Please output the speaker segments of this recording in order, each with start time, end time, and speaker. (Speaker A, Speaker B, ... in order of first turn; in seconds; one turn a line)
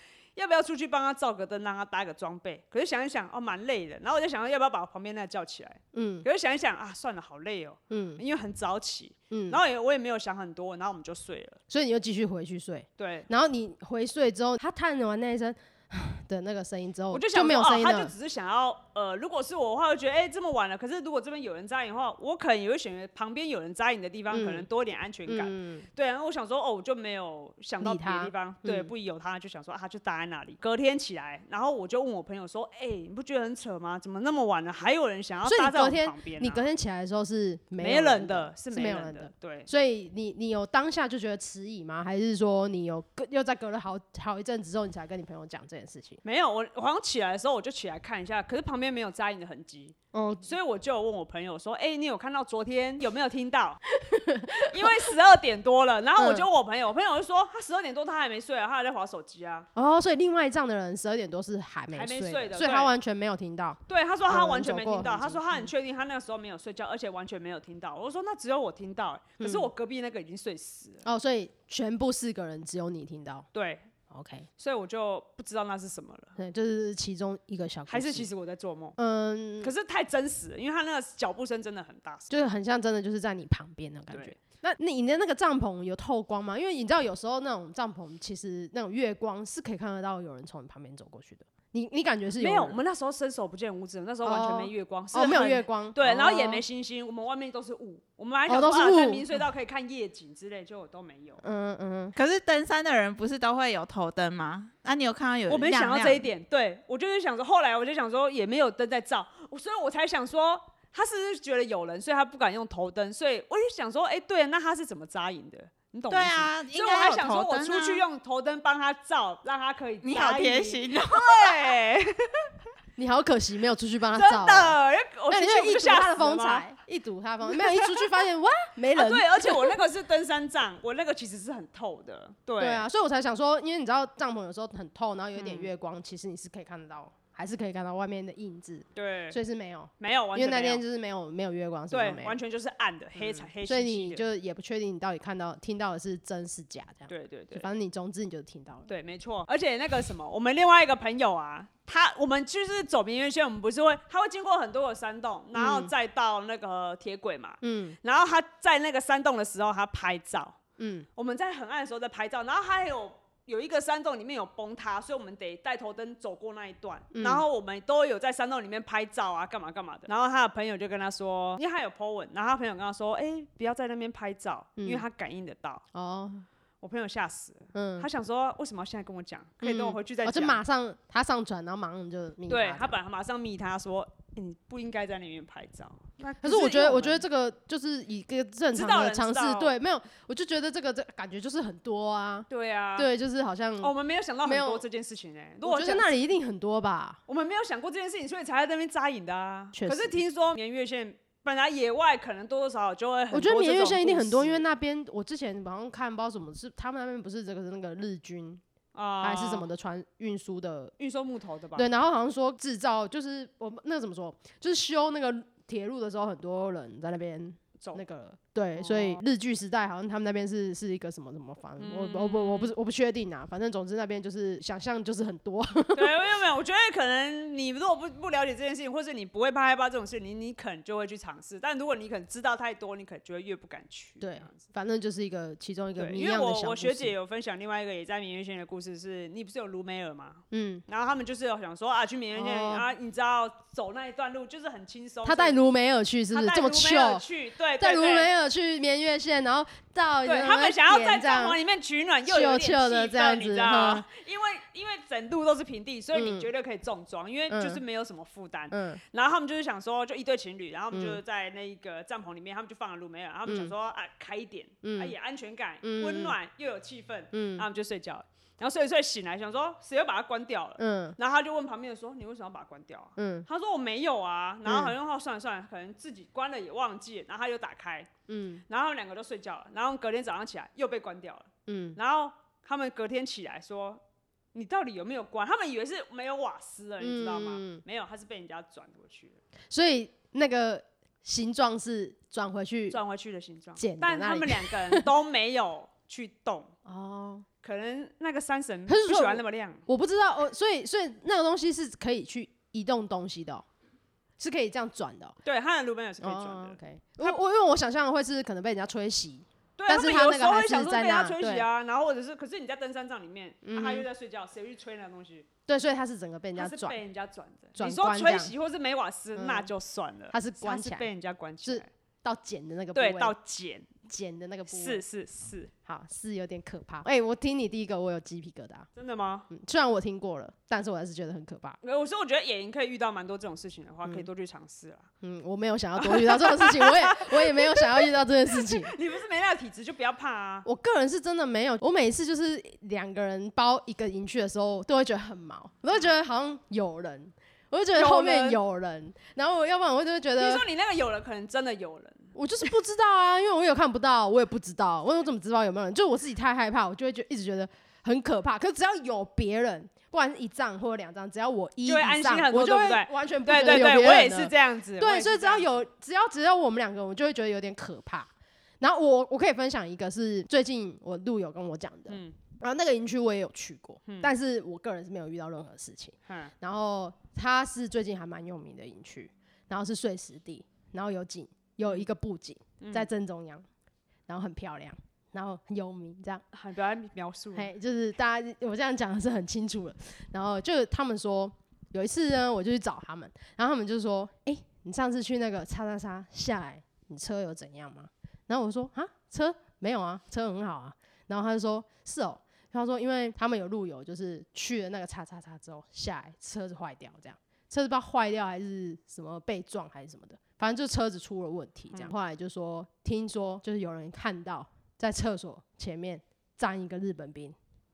Speaker A: 0.3-11.6
Speaker B: 5.9-6.2
Speaker B: 7.9-8.2
Speaker B: 9.3-9.6
Speaker B: 11.7-18.1
Speaker A: 13.0-13.3
Speaker A: 17.1-36.6
Speaker B: 24.3-24.7
Speaker B: 25.3-25.9
Speaker B: 27.8-28.9
Speaker B: 35.4-46.2
Speaker A: 37.8-39.7
Speaker A: 46.2-53.8
Speaker B: 50.1-50.5
Speaker B: 53.9-55.1
Speaker A: 54.6-59.7
Speaker B: 56.2-56.5
Speaker B: 59.7-65.7
Speaker A: 61.9-62.9
Speaker A: 63.9-71.0
Speaker B: 69.4-69.7
Speaker B: 71.0-73.5
Speaker A: 73.5-73.9
Speaker B: 74.1-74.5
Speaker A: 74.6-76.3
Speaker B: 76.4-78.3
Speaker A: 77.9-79.0
Speaker B: 79.0-79.7
Speaker A: 79.6-82.4
Speaker B: 82.3-92.8
Speaker A: 84.1-84.3
Speaker A: 92.4-101.4
Speaker B: 94.2-96.6
Speaker B: 98.5-99.4
Speaker B: 101.4-102.1
Speaker C: 102.2-106.2
Speaker A: 105.5-122.2
Speaker C: 116.1-118.0
Speaker C: 120.0-121.8
Speaker B: 123.0-124.8
Speaker A: 124.1-126.7
Speaker B: 125.3-129.8
Speaker A: 127.5-128.0
Speaker A: 128.9-132.8
Speaker B: 132.6-142.4
Speaker A: 135.3-135.7
Speaker A: 138.9-139.4
Speaker A: 140.0-140.8
Speaker A: 141.9-144.2
Speaker B: 143.2-148.9
Speaker A: 147.1-147.7
Speaker A: 148.9-160.6
Speaker B: 155.5-155.9
Speaker B: 157.6-158.0
Speaker B: 160.8-161.1
Speaker A: 161.2-175.8
Speaker B: 167.1-167.4
Speaker B: 174.8-175.0
Speaker B: 175.9-176.4
Speaker A: 176.8-180.6
Speaker B: 177.7-178.1
Speaker B: 179.6-182.9
Speaker A: 182.5-187.2
Speaker B: 186.4-194.8
Speaker A: 188.7-189.7
Speaker A: 192.5-193.1
Speaker A: 193.8-196.1
Speaker B: 195.6-197.2
Speaker A: 197.3-204.6
Speaker B: 199.7-200.2
Speaker B: 203.3-208.6
Speaker A: 208.9-209.7
Speaker B: 209.2-210.9
Speaker A: 211.0-211.9
Speaker B: 211.8-226.2
Speaker A: 218.8-219.2
Speaker A: 221.8-222.7
Speaker A: 225.9-234.7
Speaker B: 234.2-237.1
Speaker A: 236.0-245.6
Speaker B: 240.5-240.8
Speaker B: 242.3-242.9
Speaker B: 245.2-247.2
Speaker A: 246.3-248.3
Speaker B: 247.8-251.6
Speaker A: 250.2-278.1
Speaker B: 252.2-254.1
Speaker B: 256.1-256.5
Speaker B: 257.5-257.8
Speaker B: 258.7-259.0
Speaker B: 260.9-261.2
Speaker B: 263.5-263.7
Speaker B: 264.8-265.1
Speaker B: 265.8-266.4
Speaker B: 267.3-267.6
Speaker B: 270.8-271.2
Speaker B: 273.2-273.5
Speaker B: 274.6-274.9
Speaker B: 278.3-278.6
Speaker A: 278.7-284.0
Speaker B: 281.7-282.0
Speaker A: 284.5-289.4
Speaker B: 287.0-287.8
Speaker B: 289.7-293.0
Speaker A: 292.9-296.7
Speaker B: 293.8-295.1
Speaker B: 296.8-297.4
Speaker A: 297.6-299.8
Speaker B: 298.9-303.6
Speaker B: 304.4-305.4
Speaker A: 305.4-307.4
Speaker B: 306.2-311.7
Speaker A: 309.8-315.5
Speaker B: 313.6-314.1
Speaker B: 315.7-317.0
Speaker A: 316.6-321.9
Speaker B: 317.8-318.5
Speaker B: 319.3-319.7
Speaker B: 320.3-321.1
Speaker B: 321.6-323.3
Speaker A: 322.9-323.9
Speaker B: 324.0-325.0
Speaker A: 324.7-325.7
Speaker B: 325.8-328.9
Speaker A: 328.9-329.5
Speaker B: 329.5-331.8
Speaker A: 331.8-335.1
Speaker B: 335.2-338.9
Speaker A: 336.0-340.6
Speaker B: 340.6-350.6
Speaker A: 347.9-348.6
Speaker A: 350.4-352.3
Speaker B: 352.3-383.6
Speaker A: 361.8-365.7
Speaker A: 372.1-372.4
Speaker A: 374.1-374.3
Speaker A: 376.3-376.5
Speaker A: 382.8-383.1
Speaker B: 384.3-386.4
Speaker A: 386.5-387.7
Speaker B: 387.5-417.6